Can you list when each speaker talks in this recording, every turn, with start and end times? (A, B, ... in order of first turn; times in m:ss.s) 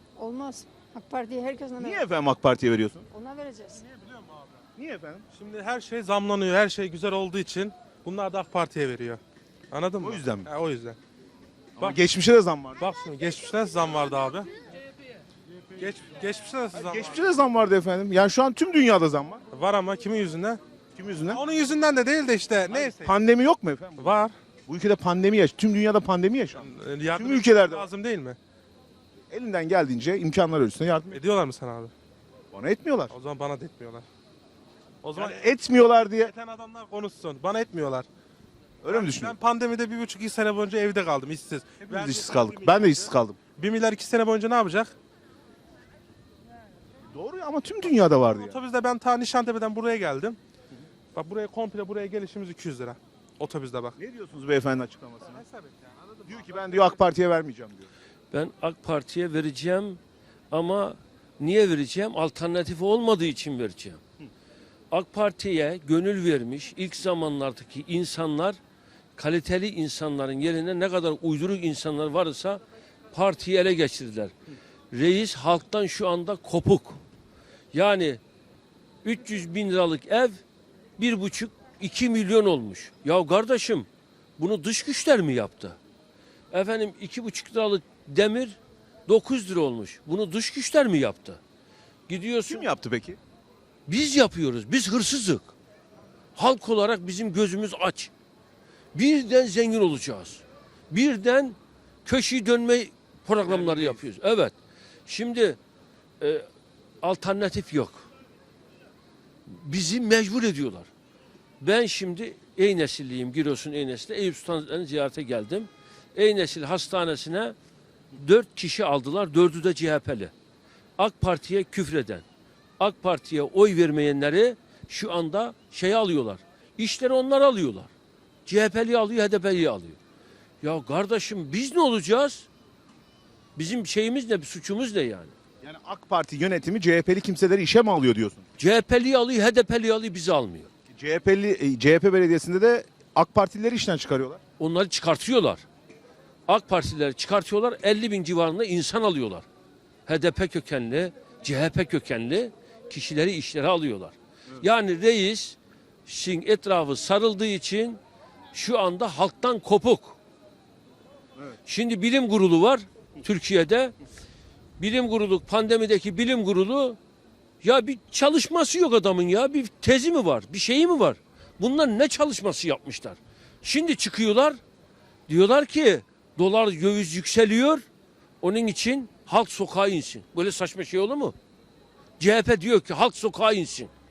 0:00.2-0:02.0 A
0:01.7-0:03.1 B
0:03.1-0:03.8 A
0:04.8-0:05.2 B
0:05.3-0:09.2 C
0:09.7-0:11.0 C
0:10.0-0:10.5 B
0:11.8-0:12.8 B
0:12.8-0:14.5 C
0:15.8-0:17.2 C
0:16.7-0:19.4 B
0:19.5-0:20.6 C
0:21.0-0:21.4 B
0:21.3-0:23.2 C
0:22.8-0:24.2 B
0:24.0-0:24.3 C
0:24.7-0:26.6 B
0:26.6-0:28.4 C
0:27.1-0:27.9 B
0:29.3-0:31.2 B
0:31.1-0:31.9 C
0:32.5-0:33.1 B
0:33.1-0:34.0 C
0:35.0-0:35.5 C
0:35.2-0:36.3 B
0:36.2-0:38.1 C
0:38.8-0:39.4 B
0:38.9-0:43.0 C
0:41.8-0:43.4 B
0:43.6-0:44.9 C
0:47.1-0:48.6 B
0:48.4-0:50.4 C
0:51.2-0:53.9 C
0:54.0-0:55.4 B
0:56.3-0:57.9 B
0:58.3-1:00.0 D
1:00.5-1:04.0 D
1:04.9-1:08.6 D
1:09.2-1:14.3 D
1:14.9-1:17.0 D
1:17.7-1:18.2 D
1:19.0-1:20.4 D
1:21.0-1:23.9 D
1:24.4-1:25.8 D
1:26.5-1:31.4 D
1:32.1-1:32.7 D
1:32.5-1:33.2 B
1:33.9-1:35.5 D
1:36.4-1:38.1 D
1:38.9-1:44.5 D
1:43.6-1:43.9 C
1:45.1-1:45.6 D
1:46.2-1:46.4 D
1:47.0-1:48.1 D
1:49.5-1:50.9 D
1:51.6-1:57.6 D
1:58.2-2:00.3 D
2:01.0-2:02.2 D
2:02.8-2:07.9 D
2:08.5-2:10.0 D
2:10.6-2:12.5 D
2:13.6-2:15.3 D
2:15.6-2:18.4 B
2:18.6-2:20.7 D
2:20.9-2:24.4 B
2:24.6-2:25.6 D
2:26.5-2:29.4 D
2:30.1-2:38.0 D
2:38.5-2:40.2 D
2:41.7-2:44.0 D
2:44.8-2:47.0 D
2:47.6-2:54.6 D
2:55.3-2:57.8 D
2:58.4-3:01.4 D
3:02.2-3:03.9 D